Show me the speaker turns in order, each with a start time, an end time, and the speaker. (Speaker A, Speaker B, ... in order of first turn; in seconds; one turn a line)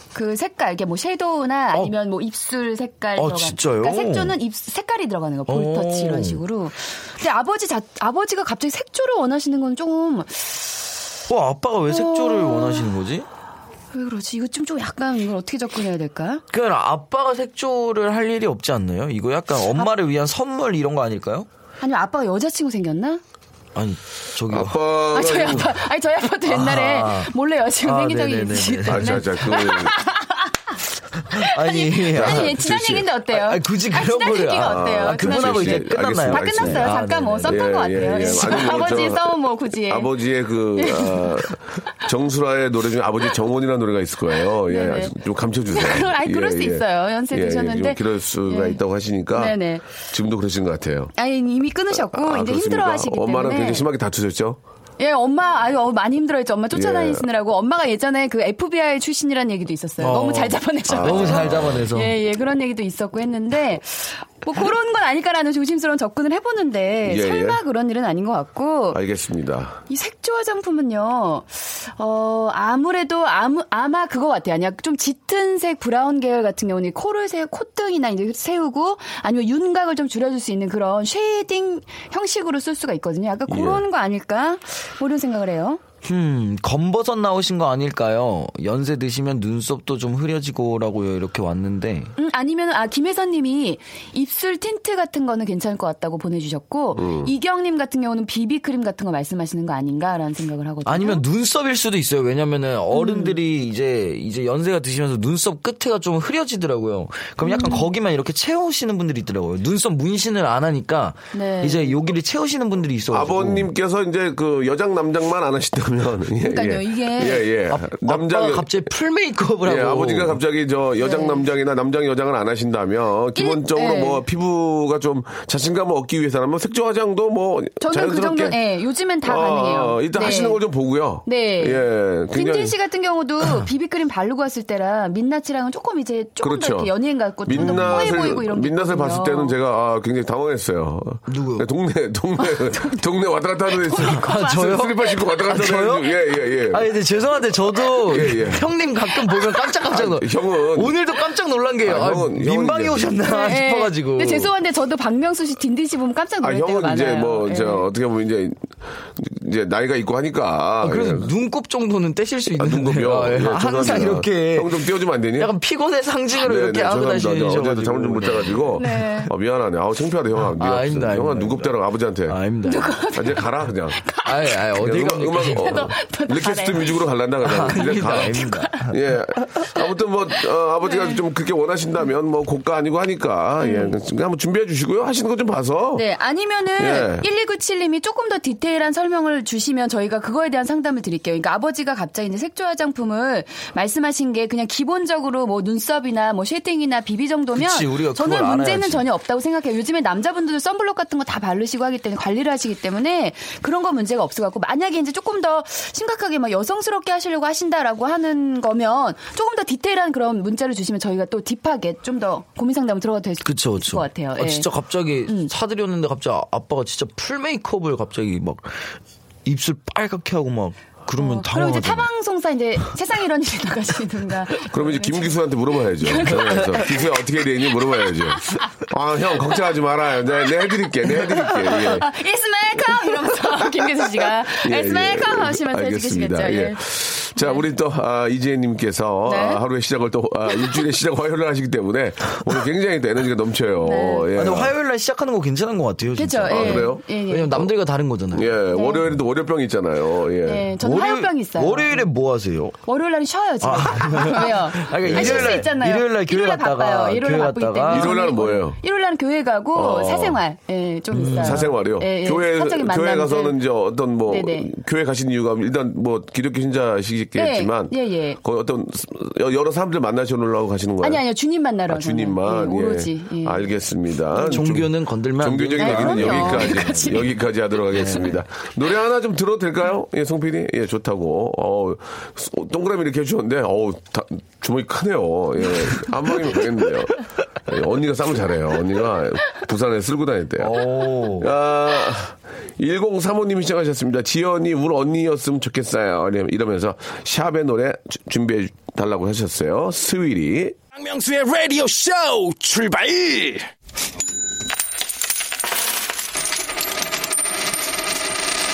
Speaker A: 0.1-11.0
Speaker B: 3.1-4.3
Speaker B: 5.5-6.4
Speaker B: 11.3-13.2
Speaker A: 11.9-12.9
Speaker A: 13.9-16.4
Speaker B: 16.5-21.5
Speaker A: 21.8-23.2
Speaker B: 23.7-24.8
Speaker C: 24.5-25.7
Speaker A: 25.1-40.1
Speaker B: 26.4-27.3
Speaker B: 27.8-29.5
Speaker C: 28.9-29.9
Speaker B: 31.3-32.7
Speaker C: 32.1-33.0
Speaker B: 33.3-38.5
Speaker C: 34.6-36.9
Speaker C: 37.4-51.1
Speaker A: 40.8-41.5
Speaker A: 44.5-45.1
Speaker A: 45.7-48.8
Speaker A: 49.3-49.8
Speaker A: 51.1-53.9
Speaker C: 51.9-54.6
Speaker A: 55.0-69.0
Speaker C: 56.7-57.2
Speaker B: 60.0-62.1
Speaker C: 60.9-61.8
Speaker C: 67.0-67.6
Speaker C: 68.9-69.8
Speaker A: 69.9-85.8
Speaker C: 83.5-83.8
Speaker B: 86.0-92.1
Speaker A: 92.2-101.2
Speaker C: 97.0-97.3
Speaker B: 100.8-113.7
Speaker A: 102.9-103.4
Speaker A: 107.4-107.9
Speaker A: 111.3-112.0
Speaker C: 113.1-118.7
Speaker A: 116.4-117.5
Speaker B: 117.7-120.4
Speaker C: 119.6-128.6
Speaker A: 121.0-121.5
Speaker A: 123.3-124.2
Speaker A: 127.8-130.6
Speaker C: 129.2-132.7
Speaker A: 131.2-139.6
Speaker C: 136.4-136.9
Speaker C: 137.4-146.9
Speaker B: 137.5-138.1
Speaker B: 141.3-141.7
Speaker A: 142.4-143.0
Speaker A: 143.7-145.4
Speaker B: 144.1-146.1
Speaker B: 146.7-154.5
Speaker C: 148.0-148.7
Speaker A: 149.1-149.6
Speaker C: 149.9-151.0
Speaker C: 151.8-153.2
Speaker A: 153.2-157.9
Speaker C: 156.4-161.3
Speaker B: 160.8-169.1
Speaker C: 162.6-165.5
Speaker C: 166.3-172.4
Speaker A: 168.8-169.3
Speaker B: 170.4-171.7
Speaker B: 172.3-173.0
Speaker A: 172.7-174.6
Speaker C: 173.1-174.0
Speaker B: 174.2-175.8
Speaker C: 174.7-186.1
Speaker A: 175.4-177.1
Speaker B: 177.4-178.9
Speaker A: 177.8-178.9
Speaker A: 180.8-181.2
Speaker A: 183.6-183.9
Speaker A: 185.9-214.7
Speaker C: 186.8-187.2
Speaker B: 197.5-199.0
Speaker B: 213.4-218.9
Speaker A: 215.2-215.5
Speaker B: 219.4-222.1
Speaker A: 221.2-227.1
Speaker C: 224.7-232.1
Speaker A: 227.9-228.7
Speaker A: 230.8-236.8
Speaker C: 234.5-244.8
Speaker A: 237.3-237.6
Speaker A: 239.2-239.6
Speaker A: 243.8-244.3
Speaker B: 244.3-248.5
Speaker A: 246.2-247.7
Speaker C: 246.5-247.0
Speaker C: 248.3-250.7
Speaker A: 248.7-249.0
Speaker A: 250.4-252.1
Speaker B: 250.8-252.8
Speaker A: 252.8-263.6
Speaker B: 253.6-258.3
Speaker C: 255.0-255.6
Speaker C: 257.9-258.8
Speaker C: 259.7-260.4
Speaker B: 261.1-261.7
Speaker C: 261.3-271.2
Speaker A: 264.3-264.7
Speaker A: 267.3-268.4
Speaker A: 271.0-273.7
Speaker C: 271.9-300.8
Speaker A: 274.3-274.6
Speaker B: 274.4-277.3
Speaker A: 275.8-277.3
Speaker B: 277.9-278.4
Speaker B: 290.6-291.5
Speaker D: 300.9-303.7